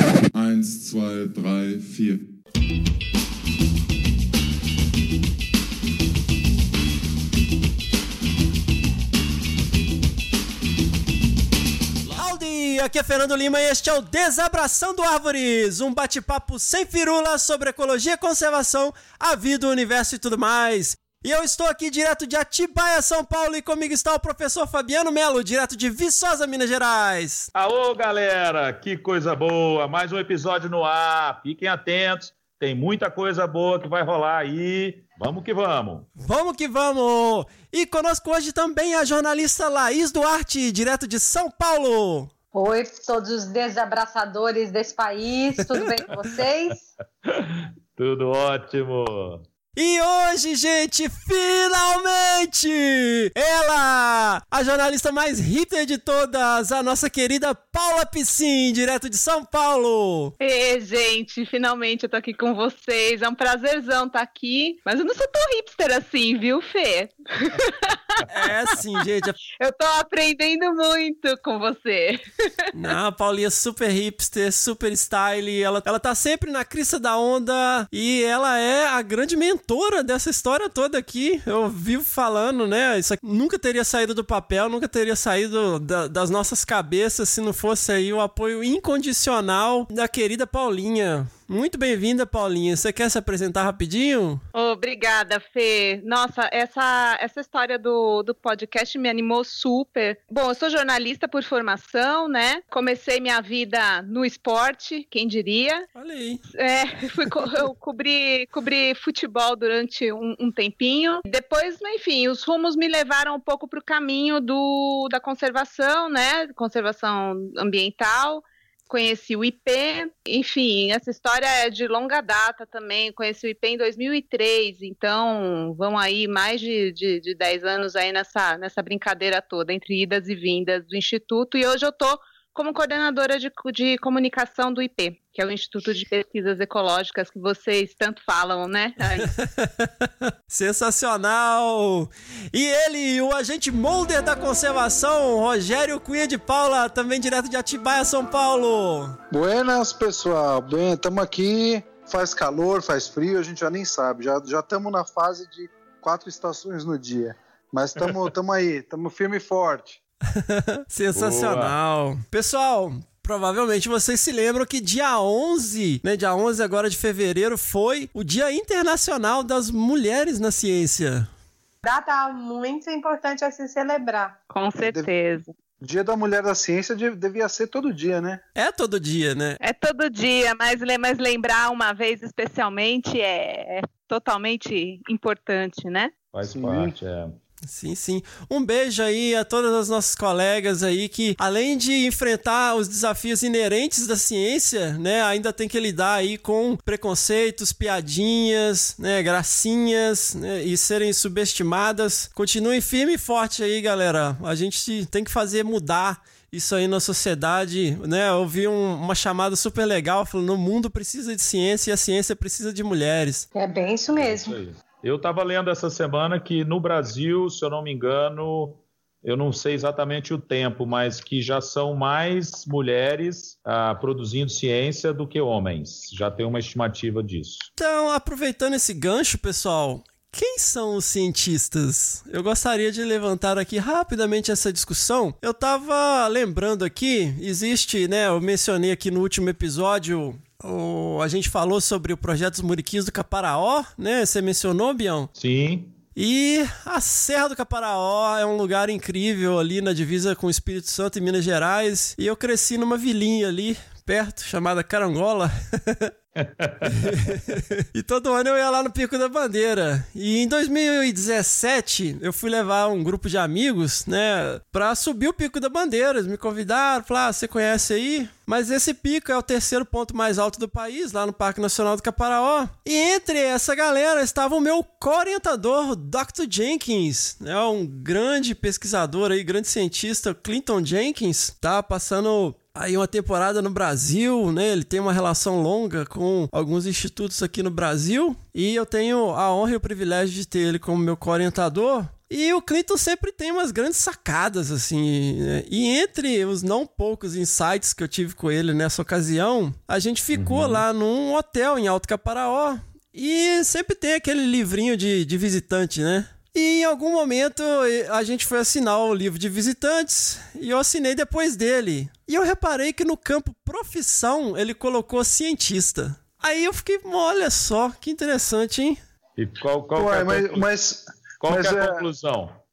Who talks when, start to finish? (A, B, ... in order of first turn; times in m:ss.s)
0:00.3-0:02.2 A
0:12.1-0:27.5 B
0:27.6-0:36.1 C
0:36.2-0:42.3 B
0:42.5-0:46.8 D
0:47.2-0:49.4 C
0:49.8-1:00.3 B
1:00.4-1:08.2 E
1:08.3-1:09.4 B
1:09.6-1:12.7 E
1:12.7-1:34.4 B
1:34.6-1:45.9 E
1:46.0-1:46.4 B
1:46.6-2:19.3 E
2:19.2-2:29.2 B
2:29.3-2:40.0 F
2:40.3-2:51.3 B
2:41.1-2:41.8 C
2:51.8-2:54.4 D
2:54.5-2:55.5 E
2:54.8-2:55.1 F
2:55.8-2:58.4 F
2:58.6-2:59.6 B
2:59.6-3:06.1 E
3:06.3-3:07.4 C
3:06.5-3:06.9 F
3:07.7-3:33.5 B
3:33.5-3:34.6 D
3:34.2-3:47.7 C
3:47.8-4:05.3 B
4:05.4-4:06.0 C
4:06.2-4:16.1 B
4:16.4-4:17.1 C
4:16.9-5:19.0 B
5:00.3-5:00.8 C
5:19.4-5:20.7 C
5:20.0-5:22.0 F
5:21.4-5:22.6 C